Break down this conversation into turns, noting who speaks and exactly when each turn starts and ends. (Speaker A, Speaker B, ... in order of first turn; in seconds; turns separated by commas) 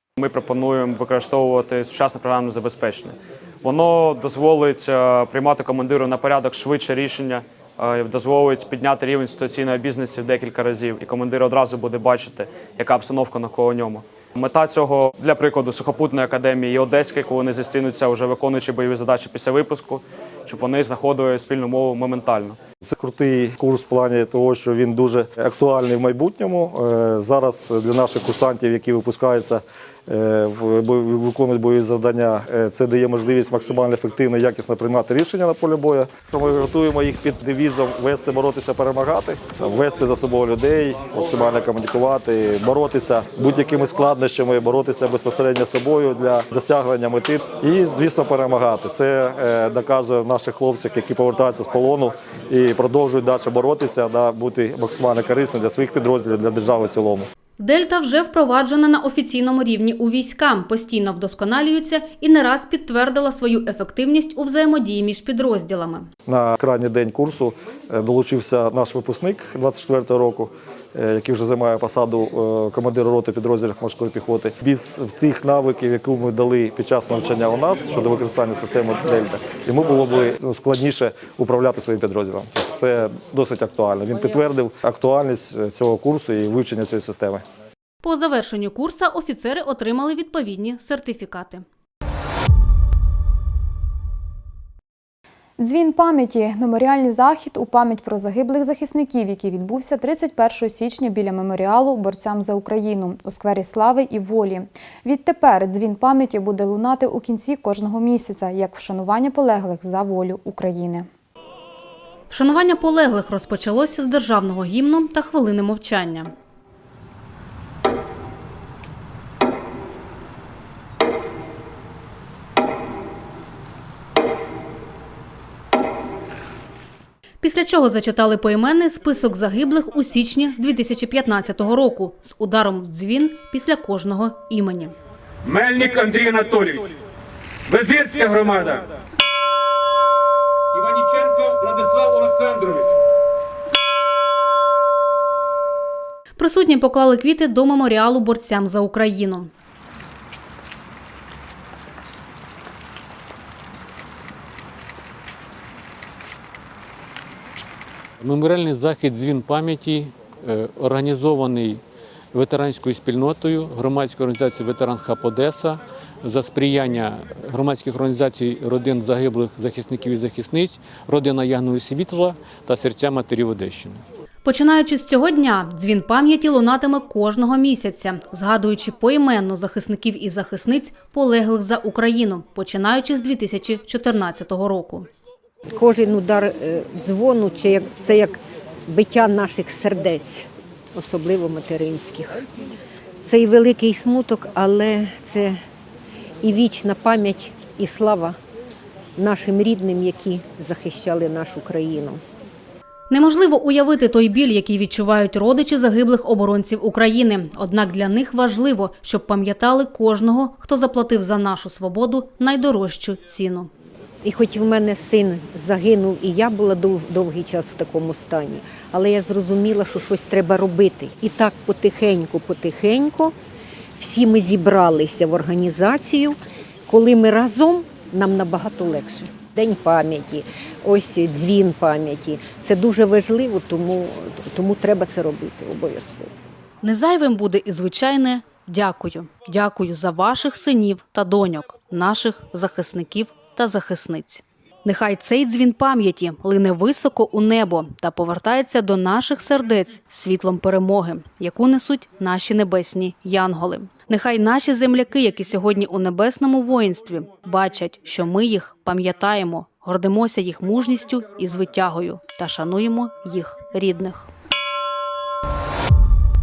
Speaker A: 0.2-22.6, Speaker B: 22.9-57.3, Speaker C: 57.6-66.1, Speaker B: 66.3-87.4, Speaker C: 88.0-91.7, Speaker D: 95.6-111.1, Speaker C: 112.3-116.3, Speaker C: 127.4-134.9, Speaker E: 135.8-136.5, Speaker E: 138.1-138.8, Speaker C: 146.4-149.5, Speaker E: 158.2-161.7, Speaker E: 162.4-165.7, Speaker E: 166.3-174.0, Speaker C: 174.4-185.1, Speaker F: 185.7-192.4, Speaker F: 193.2-195.6, Speaker F: 196.4-198.4, Speaker F: 199.2-202.2, Speaker C: 203.1-213.7, Speaker F: 214.2-223.3, Speaker F: 224.0-236.3, Speaker C: 236.8-264.3